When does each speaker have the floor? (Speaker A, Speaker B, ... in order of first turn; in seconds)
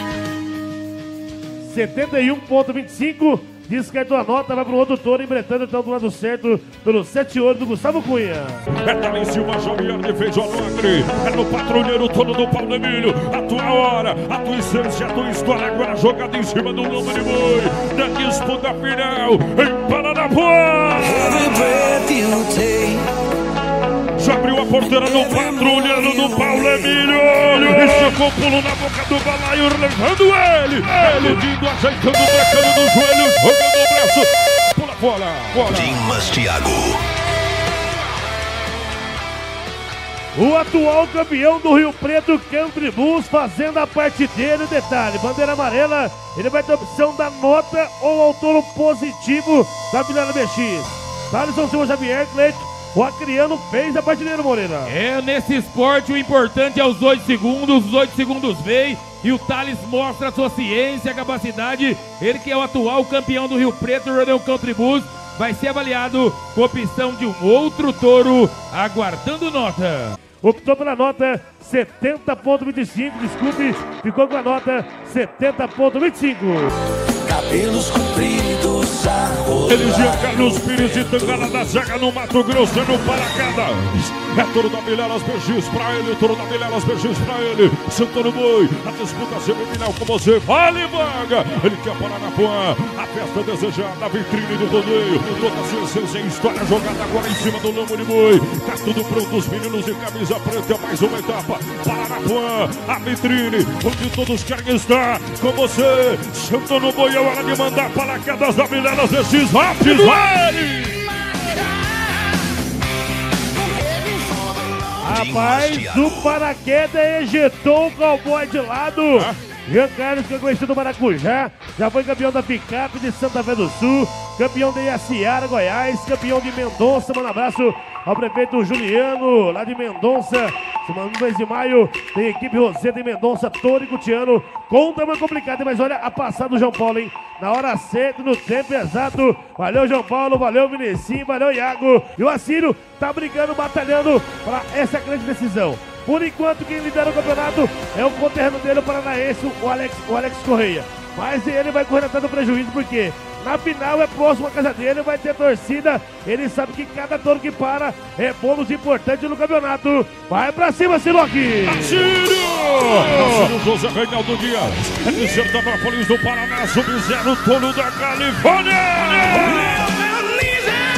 Speaker A: 1.6-8.7, 40.4-54.9, 70.4-76.7, 115.0-162.1
Speaker B: 8.8-22.1, 24.2-36.4, 79.7-111.1, 161.7-170.0
Speaker C: 22.1-23.1, 77.3-79.5, 113.7-114.5, 170.3-170.7
Speaker D: 35.6-37.0, 115.2-116.3
Speaker E: 54.9-70.2